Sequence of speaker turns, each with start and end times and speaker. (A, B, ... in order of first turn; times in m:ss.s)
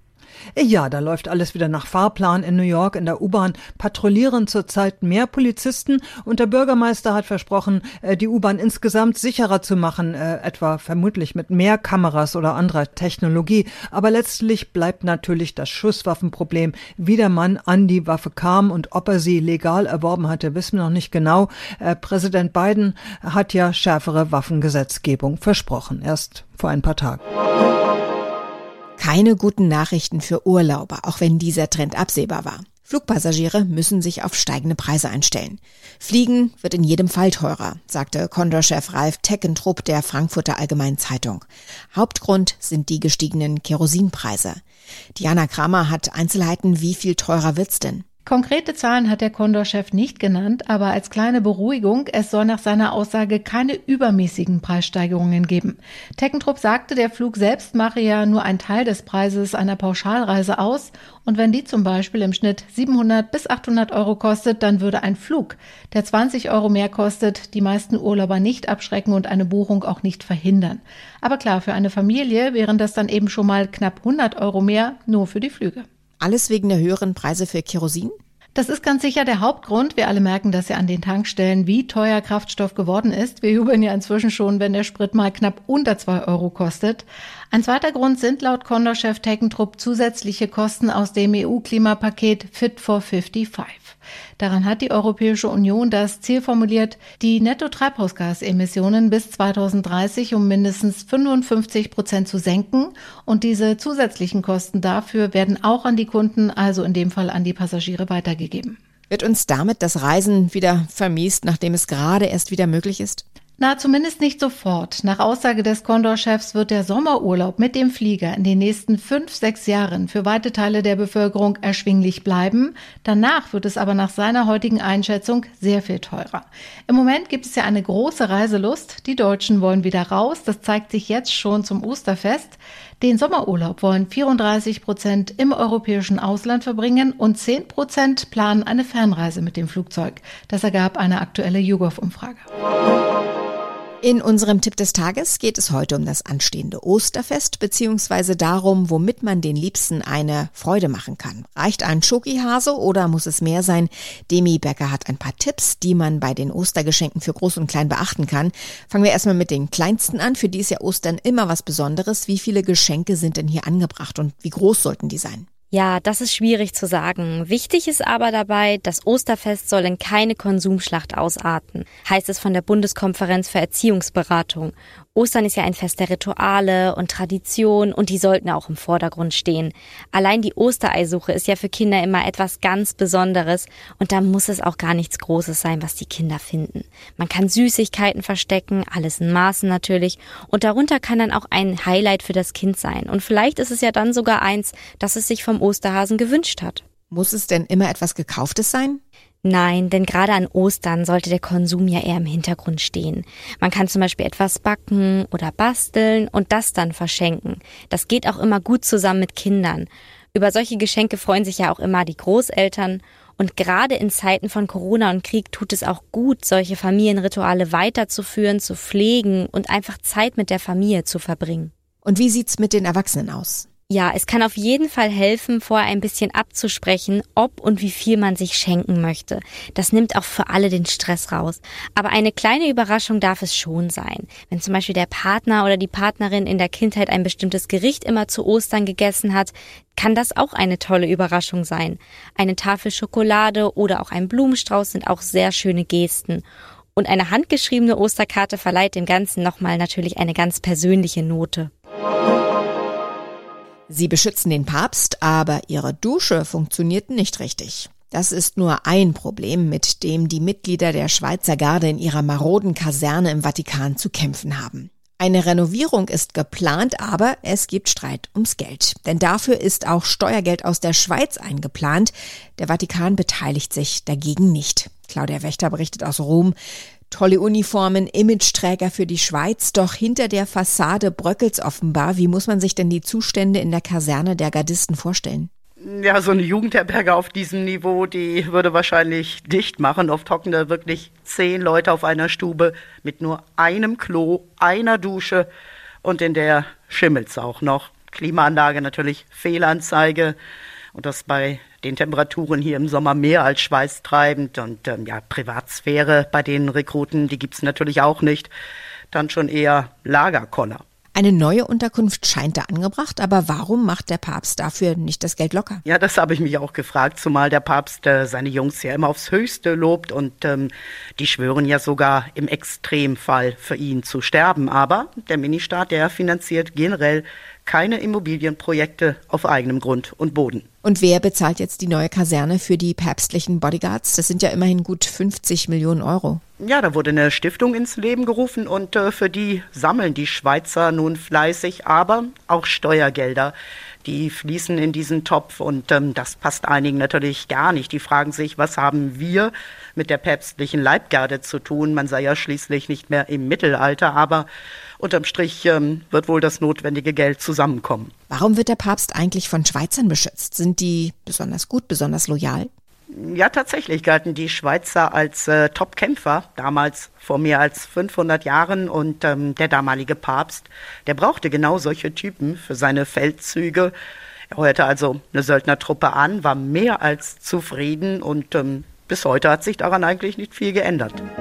0:00.5-0:27.2 A
0:29.0-0:44.6 B
0:45.2-0:48.0 B
0:48.2-1:15.8 C
1:16.2-1:18.1 B
1:18.5-1:48.8 C
1:49.1-1:53.2 B
1:53.6-2:22.5 C
2:24.0-2:45.4 B
2:45.7-3:16.8 D
3:17.1-3:19.0 B
3:19.4-3:41.7 D
3:42.0-3:43.7 B
3:43.9-4:06.4 D
4:07.0-4:11.7 D
4:13.9-4:36.5 B
4:37.1-4:45.5 B
4:45.8-4:55.5 E
4:56.0-5:00.4 E
5:00.9-5:08.5 E
5:09.1-5:10.8 E
5:11.1-5:15.8 B
5:15.8-5:30.6 E
5:30.8-5:36.4 B
5:36.6-5:54.5 E
5:55.0-5:58.1 E
5:58.3-6:02.7 B
6:03.1-6:13.9 E
6:14.5-6:21.2 E